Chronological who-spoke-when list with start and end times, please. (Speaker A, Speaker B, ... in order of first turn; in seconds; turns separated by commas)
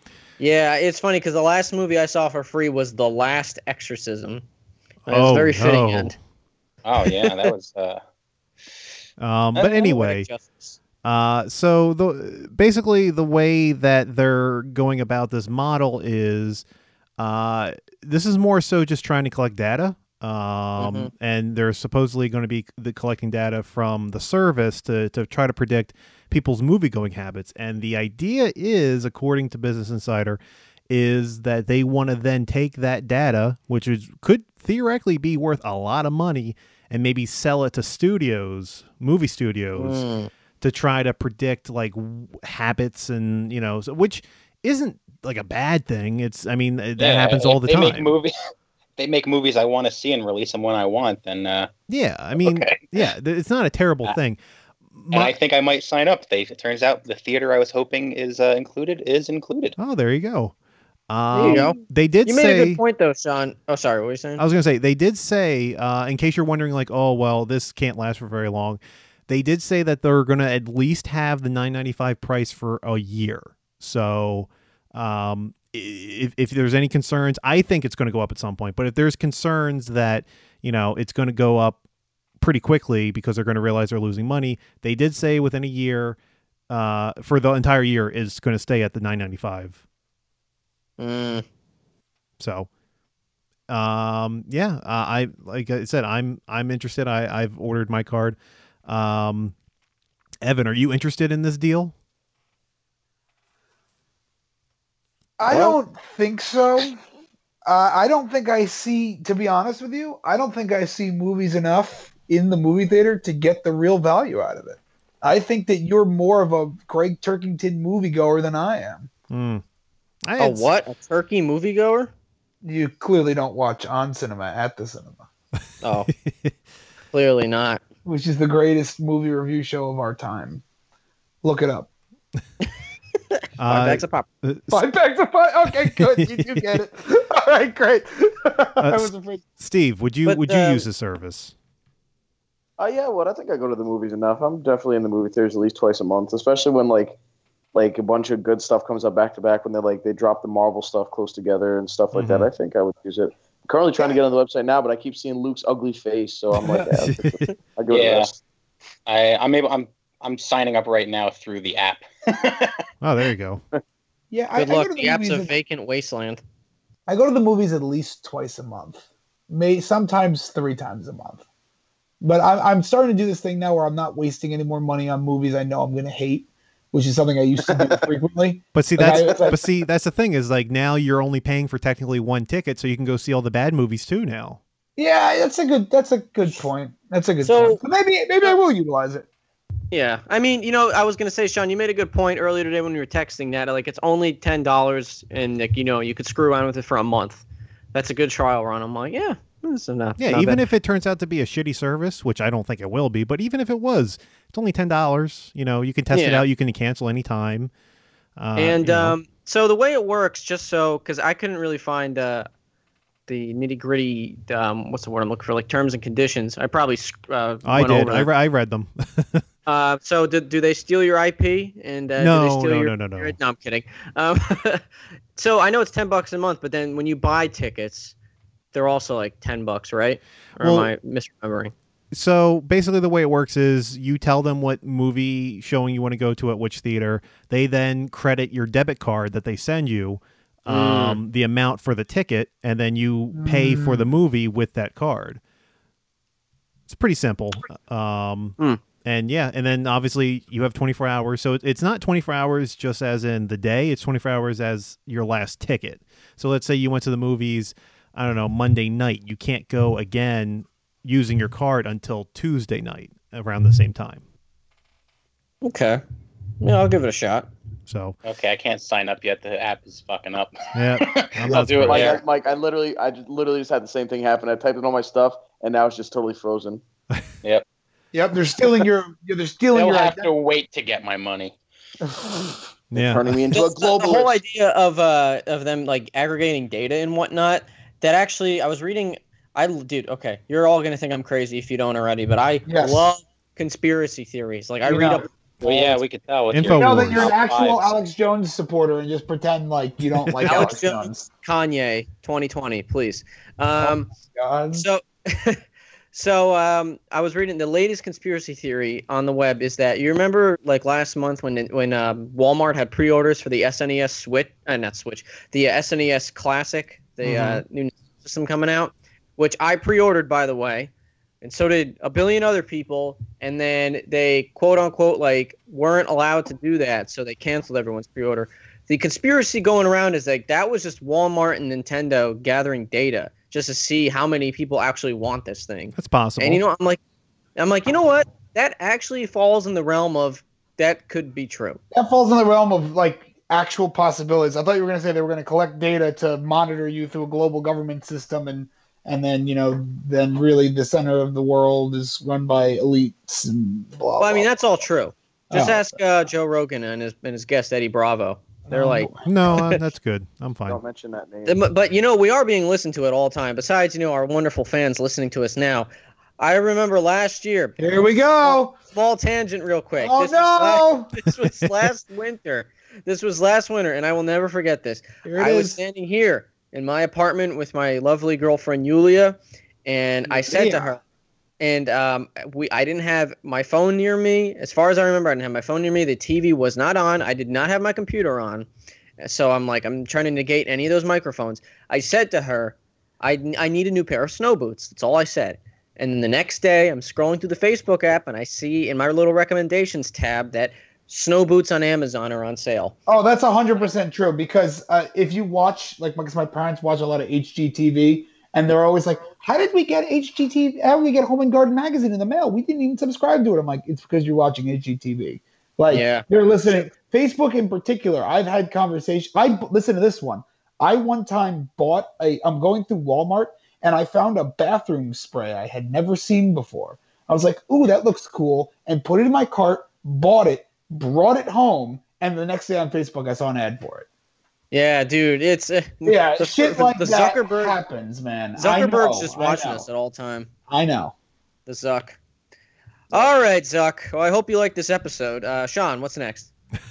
Speaker A: 0.4-4.4, Speaker B: 5.1-6.2, Speaker A: 5.1-6.2, Speaker C: 6.8-8.0, Speaker B: 9.2-10.3, Speaker A: 9.6-10.8, Speaker B: 11.0-16.6, Speaker B: 17.2-40.0, Speaker A: 20.8-21.1, Speaker A: 39.8-40.3, Speaker B: 40.6-48.1, Speaker C: 47.0-48.3, Speaker C: 49.0-51.7, Speaker B: 51.9-54.4, Speaker C: 52.4-53.0, Speaker B: 54.9-55.4, Speaker C: 55.1-59.8, Speaker B: 59.8-60.5, Speaker B: 61.1-62.8, Speaker A: 61.3-64.4, Speaker B: 64.4-81.8, Speaker B: 82.4-86.2, Speaker B: 86.7-89.8, Speaker A: 91.0-91.5, Speaker B: 92.4-92.7, Speaker B: 93.7-99.5, Speaker B: 100.4-101.9, Speaker D: 105.4-107.0, Speaker D: 107.7-119.1, Speaker B: 119.3-119.6, Speaker B: 120.3-120.7, Speaker A: 120.4-122.1, Speaker D: 122.6-125.2, Speaker A: 125.8-126.1, Speaker B: 126.3-126.5, Speaker A: 127.1-127.8, Speaker D: 128.1-130.6, Speaker D: 131.4-131.9, Speaker B: 133.6-134.9, Speaker A: 133.7-134.3, Speaker D: 134.7-139.4, Speaker B: 135.7-136.8, Speaker B: 138.8-141.5, Speaker A: 140.3-140.8, Speaker E: 142.8-147.2, Speaker E: 147.7-158.4, Speaker B: 152.1-152.5, Speaker B: 156.6-157.5, Speaker C: 157.9-158.3, Speaker C: 159.1-162.7, Speaker B: 163.0-163.6, Speaker D: 164.3-165.5, Speaker A: 164.6-166.4, Speaker D: 167.1-171.4, Speaker D: 172.2-179.7, Speaker E: 177.7-178.1, Speaker B: 178.8-184.6, Speaker D: 185.0-189.3, Speaker A: 187.4-187.8, Speaker A: 189.9-200.7, Speaker B: 200.2-207.7, Speaker A: 206.1-206.4, Speaker B: 208.4-209.2, Speaker A: 208.6-212.5, Speaker A: 213.3-218.3, Speaker B: 217.7-219.4, Speaker A: 219.7-224.8, Speaker B: 222.2-223.4, Speaker A: 225.4-228.1, Speaker A: 228.7-231.7, Speaker B: 230.6-230.9, Speaker B: 232.1-245.4, Speaker A: 240.7-241.2, Speaker D: 243.3-244.1, Speaker B: 246.9-264.2, Speaker A: 265.6-266.0, Speaker A: 266.6-267.5, Speaker B: 267.9-268.2, Speaker C: 268.2-270.6, Speaker B: 270.8-272.2, Speaker D: 271.2-271.7, Speaker C: 271.5-272.2, Speaker E: 271.8-276.8, Speaker D: 278.1-280.3, Speaker C: 279.7-281.6, Speaker D: 282.1-282.6, Speaker B: 282.9-283.4, Speaker E: 282.9-284.4, Speaker A: 283.5-296.0, Speaker D: 292.7-293.1, Speaker D: 294.9-295.3, Speaker C: 295.6-297.9, Speaker B: 296.5-297.3, Speaker D: 296.6-301.3, Speaker B: 300.2-300.7, Speaker A: 300.5-304.1, Speaker D: 303.8-304.9, Speaker A: 304.7-305.6, Speaker A: 306.1-320.9, Speaker B: 317.2-317.6, Speaker A: 321.4-337.0, Speaker B: 336.0-336.6, Speaker A: 337.6-341.8, Speaker D: 341.9-354.8, Speaker A: 354.2-359.7, Speaker D: 355.5-356.0, Speaker D: 358.7-359.7, Speaker B: 359.2-360.8, Speaker E: 360.7-361.6, Speaker A: 361.4-365.9, Speaker A: 366.4-367.8, Speaker D: 367.8-368.8, Speaker A: 368.4-381.0, Speaker D: 370.0-371.2, Speaker D: 375.2-375.8, Speaker D: 380.3-381.0, Speaker A: 381.6-388.7, Speaker A: 389.2-402.9, Speaker D: 403.1-434.1, Speaker A: 415.9-416.8, Speaker A: 434.7-437.8, Speaker D: 436.1-439.9, Speaker A: 438.6-440.5, Speaker D: 440.7-441.1, Speaker A: 441.7-442.2, Speaker A: 443.1-446.5